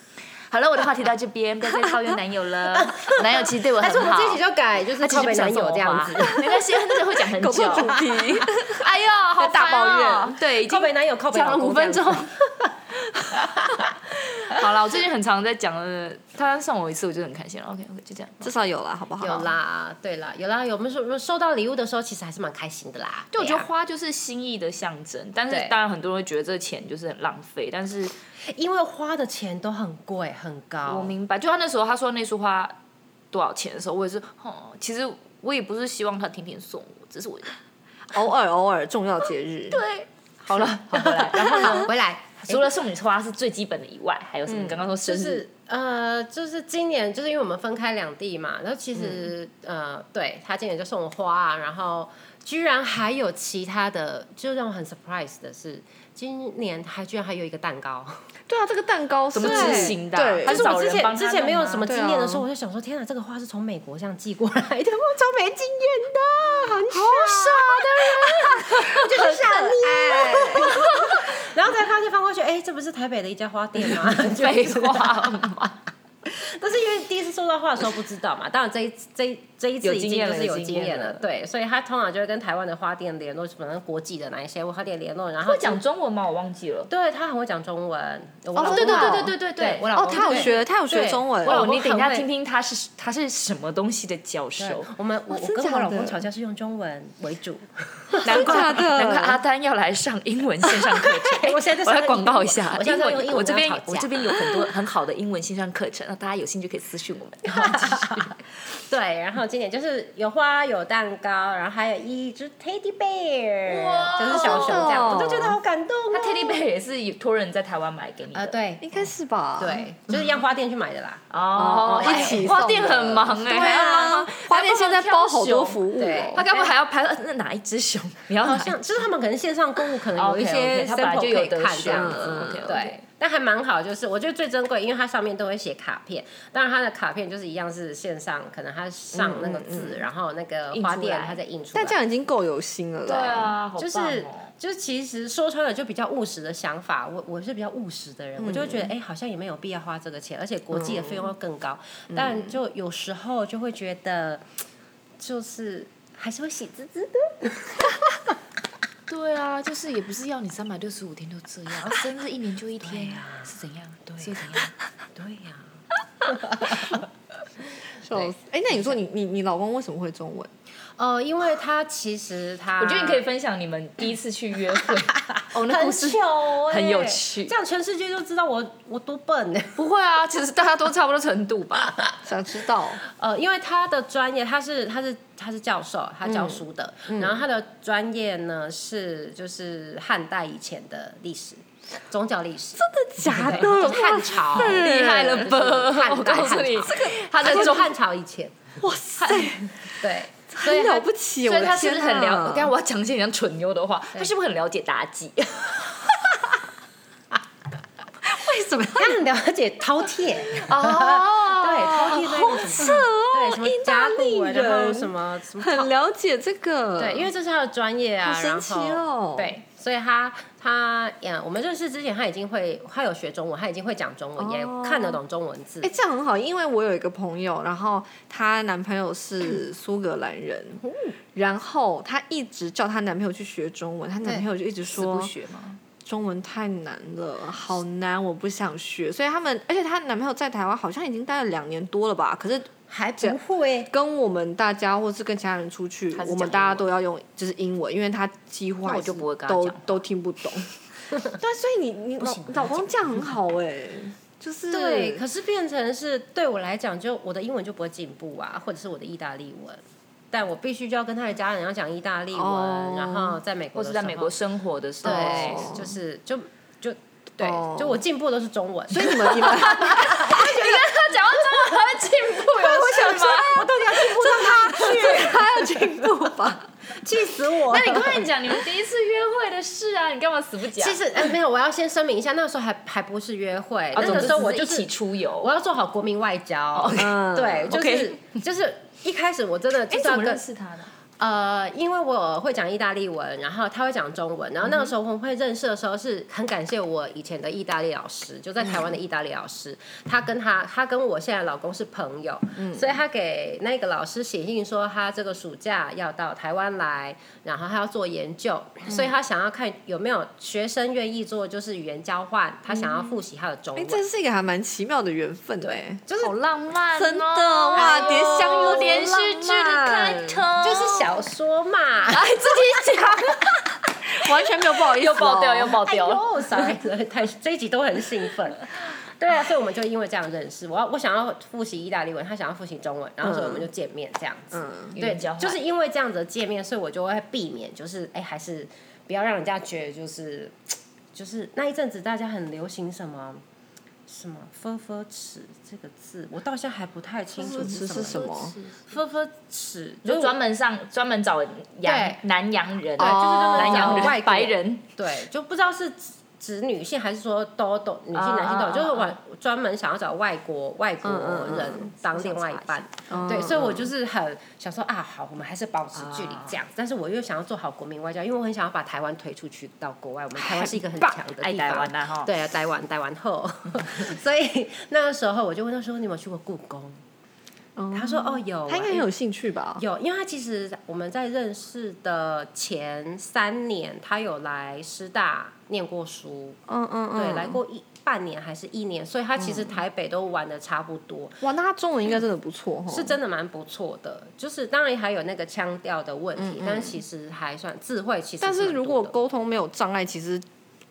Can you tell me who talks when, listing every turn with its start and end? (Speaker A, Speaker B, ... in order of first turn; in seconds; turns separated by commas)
Speaker A: 0.5-4.4, Speaker B: 2.7-6.6, Speaker A: 5.0-12.3, Speaker C: 7.3-10.4, Speaker B: 10.7-12.4, Speaker A: 13.0-18.5, Speaker C: 18.4-19.5, Speaker B: 19.2-23.7, Speaker A: 23.3-28.1, Speaker B: 25.5-25.7, Speaker B: 28.5-31.1, Speaker A: 30.9-32.7, Speaker A: 33.3-37.5, Speaker C: 38.1-39.8, Speaker A: 39.7-45.4, Speaker B: 40.9-42.7, Speaker C: 44.5-44.8, Speaker B: 45.0-58.2, Speaker C: 58.5-60.6, Speaker A: 59.3-61.9, Speaker B: 59.4-75.6, Speaker C: 61.9-62.4, Speaker C: 66.9-70.8, Speaker A: 67.3-68.7, Speaker A: 70.7-71.2, Speaker A: 74.0-75.7, Speaker B: 76.3-85.8, Speaker A: 79.8-81.2, Speaker A: 85.4-86.9, Speaker B: 86.9-92.3, Speaker C: 88.5-89.3, Speaker A: 88.7-90.5, Speaker C: 89.9-91.6, Speaker A: 91.4-94.9, Speaker B: 94.6-98.9, Speaker C: 95.3-96.2, Speaker A: 98.2-108.4, Speaker C: 98.2-99.4, Speaker B: 101.0-104.2, Speaker B: 107.5-116.6, Speaker A: 113.7-115.2, Speaker C: 114.3-115.6, Speaker A: 116.1-118.5, Speaker B: 118.3-119.0, Speaker C: 118.8-119.8, Speaker B: 119.6-122.5, Speaker A: 121.3-129.0, Speaker C: 121.5-126.4, Speaker B: 126.0-126.7, Speaker B: 128.4-141.9, Speaker A: 130.1-132.9, Speaker C: 131.9-132.8, Speaker C: 139.1-140.0, Speaker A: 140.7-141.4, Speaker C: 141.7-143.6, Speaker A: 143.0-144.5, Speaker B: 143.8-154.4, Speaker C: 148.4-148.9, Speaker C: 150.8-151.2, Speaker C: 152.1-152.5, Speaker B: 155.2-158.0, Speaker A: 159.1-164.7, Speaker B: 162.8-163.5, Speaker B: 164.1-164.6, Speaker B: 165.1-165.6, Speaker B: 166.2-167.0, Speaker C: 168.0-170.5, Speaker B: 171.0-173.2, Speaker A: 172.8-177.5, Speaker B: 175.3-179.8, Speaker A: 179.8-181.9, Speaker C: 182.2-183.0, Speaker B: 183.0-198.6, Speaker C: 186.3-186.6, Speaker C: 192.8-195.5, Speaker A: 193.5-197.9, Speaker C: 197.0-197.6, Speaker C: 198.8-199.8, Speaker B: 199.2-201.0, Speaker C: 200.5-202.7, Speaker A: 201.4-205.9, Speaker C: 208.2-209.2, Speaker B: 208.9-215.9, Speaker A: 210.5-212.9, Speaker C: 212.1-217.3, Speaker B: 217.0-225.9, Speaker C: 218.2-219.5, Speaker C: 224.4-225.2, Speaker C: 225.8-230.8, Speaker B: 230.8-231.1, Speaker C: 231.3-235.3, Speaker A: 234.9-235.8, Speaker C: 236.0-243.4, Speaker B: 242.9-243.9, Speaker C: 243.9-255.2, Speaker A: 246.1-246.9, Speaker A: 248.8-250.0, Speaker B: 252.4-252.8, Speaker B: 254.7-264.3, Speaker C: 262.3-263.4, Speaker A: 263.7-265.6, Speaker C: 265.0-265.9, Speaker B: 265.0-275.7, Speaker C: 267.4-268.0, Speaker C: 268.9-270.4, Speaker A: 269.4-274.9, Speaker C: 274.2-276.7, Speaker B: 276.9-278.3, Speaker A: 277.7-281.2, Speaker B: 280.8-290.4, Speaker A: 283.9-285.5, Speaker A: 286.7-288.2, Speaker C: 286.9-287.7, Speaker A: 289.9-290.9, Speaker B: 291.2-314.0, Speaker C: 302.6-302.9, Speaker C: 313.8-316.0, Speaker B: 315.6-316.3, Speaker A: 316.1-321.2, Speaker C: 316.9-320.4, Speaker B: 317.8-318.9, Speaker B: 320.6-322.4, Speaker A: 322.1-326.2, Speaker C: 324.1-325.8, Speaker B: 325.8-340.6, Speaker C: 334.5-334.9, Speaker A: 334.9-335.6, Speaker B: 341.1-343.4, Speaker B: 344.1-350.3, Speaker C: 347.4-348.5, Speaker A: 350.0-354.9, Speaker B: 351.8-352.2, Speaker C: 353.0-354.2, Speaker B: 353.0-377.0, Speaker A: 358.1-359.2, Speaker C: 361.0-361.9, Speaker A: 362.0-362.8, Speaker C: 363.1-363.9, Speaker A: 365.9-366.6, Speaker A: 371.0-372.3, Speaker C: 377.8-379.8, Speaker B: 377.9-379.1, Speaker B: 379.8-386.6, Speaker C: 386.7-387.6, Speaker B: 387.1-391.4, Speaker C: 389.4-389.7, Speaker C: 391.4-393.2, Speaker B: 392.9-399.2, Speaker C: 396.4-397.0, Speaker C: 398.4-400.4